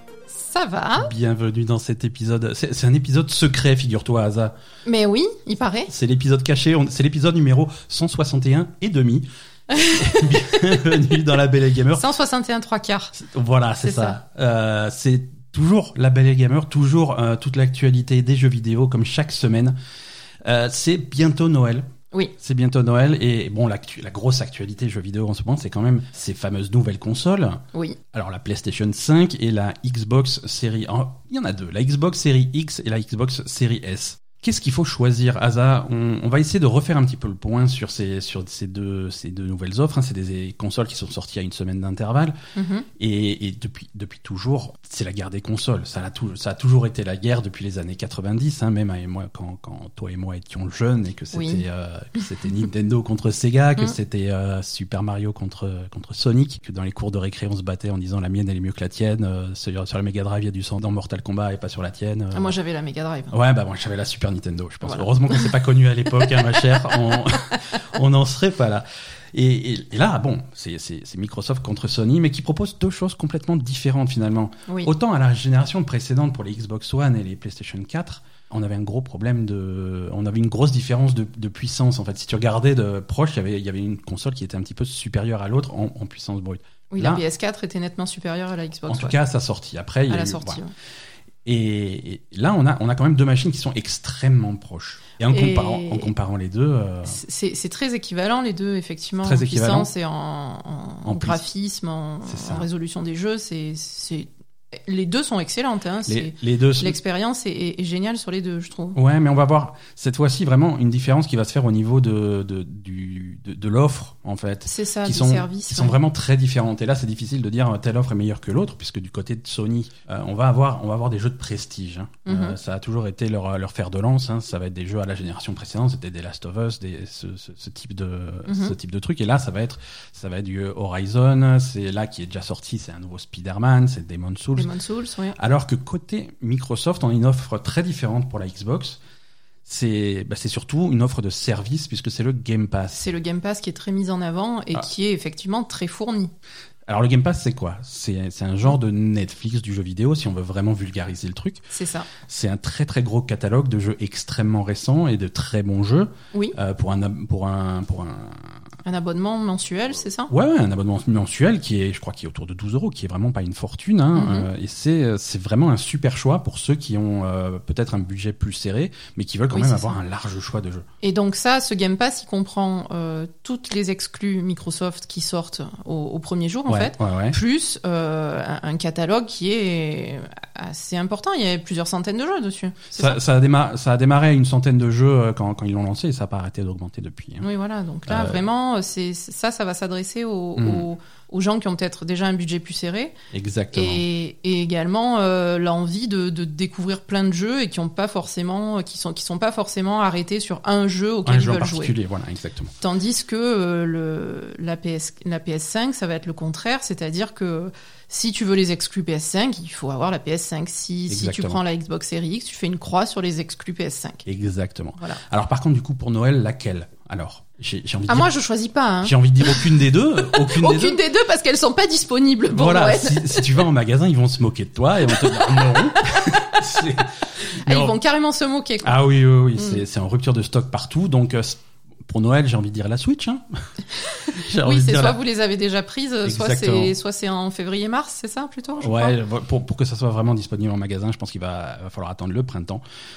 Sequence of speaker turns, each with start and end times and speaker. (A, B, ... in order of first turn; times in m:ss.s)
0:00.3-0:01.1 A
0:01.0-0:04.5 B
0:04.8-0:05.9 A
0:05.9-0:12.0 B
0:09.7-0:10.3 A
0:11.9-0:13.1 A
0:13.1-0:19.8 B
0:13.8-0:14.2 A
0:20.4-0:42.4 B
0:27.7-0:28.0 A
0:42.6-0:42.9 A
0:43.0-1:02.5 B
0:51.3-0:51.6 A
1:02.3-1:03.3 A
1:03.3-1:27.2 B
1:04.8-1:05.5 A
1:26.9-1:29.2 A
1:28.9-1:30.6 B
1:30.1-1:30.7 A
1:31.4-1:37.2 B
1:35.3-1:36.1 A
1:37.0-1:44.3 A
1:39.2-1:39.9 B
1:41.0-1:41.4 B
1:42.2-1:42.7 B
1:44.8-1:49.0 A
1:46.1-1:47.0 B
1:48.9-2:14.7 B
1:54.7-1:56.0 A
2:02.2-2:02.6 A
2:08.5-2:08.7 A
2:14.5-2:15.4 A
2:15.4-2:19.0 B
2:19.6-2:23.1 B
2:22.9-2:26.3 A
2:26.9-2:31.6 B
2:31.7-2:32.1 A
2:32.2-2:38.6 B
2:38.8-2:40.3 A
2:40.3-2:50.8 B
2:44.1-2:44.5 A
2:49.5-2:50.0 A
2:51.0-3:03.2 A
2:56.7-2:57.4 B
3:02.9-3:07.4 B
3:07.4-3:13.1 A
3:08.1-3:08.4 B
3:10.6-3:10.9 B
3:13.3-3:14.0 B
3:13.7-3:21.9 A
3:21.2-3:22.7 B
3:22.8-3:34.2 A
3:31.1-3:31.6 B
3:34.2-3:38.3 B
3:38.1-3:43.6 A
3:39.0-3:41.0 B
3:42.5-3:48.0 B
3:45.1-3:46.6 A
3:47.6-3:49.0 A
3:48.8-3:53.4 B
3:49.6-3:49.8 A
3:54.2-3:59.2 A
3:54.3-3:55.2 B
3:56.2-3:56.9 B
3:58.8-4:02.8 B